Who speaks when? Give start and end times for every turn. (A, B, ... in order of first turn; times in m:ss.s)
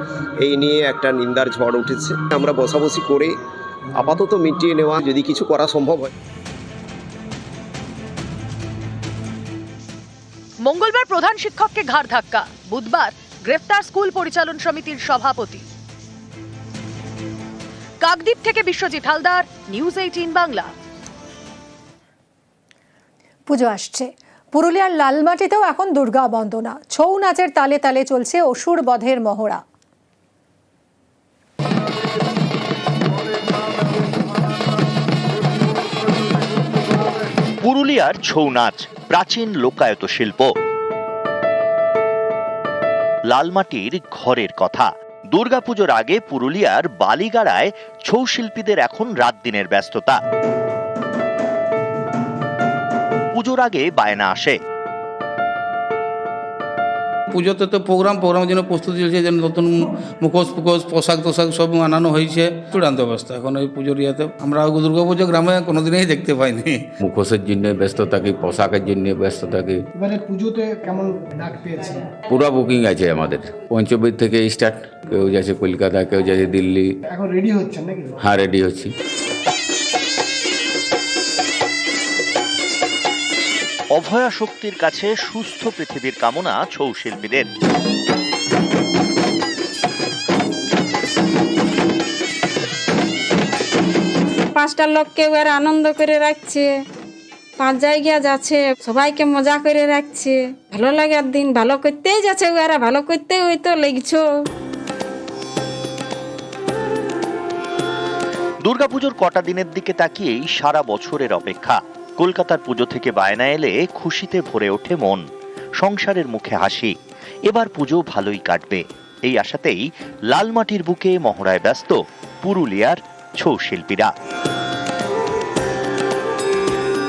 0:00.4-0:03.3 A
0:04.0-0:06.1 A
0:10.6-0:15.6 B
0:18.0-0:20.7 B
0:23.5-0:29.6 C
0:37.6-0:40.5 D
0:43.3-0:50.2 D
0:53.3-0:54.6 D
0:57.3-1:06.8 E
1:07.0-1:09.8 F
1:09.9-1:12.1 G
1:12.3-1:17.0 F
1:17.0-1:18.2 G
1:18.2-1:18.9 F
1:23.9-1:27.5 D
1:34.6-1:36.7 H
1:37.6-1:44.2 H
1:48.6-1:55.2 D
1:55.8-1:56.9 D
1:57.5-2:04.1 D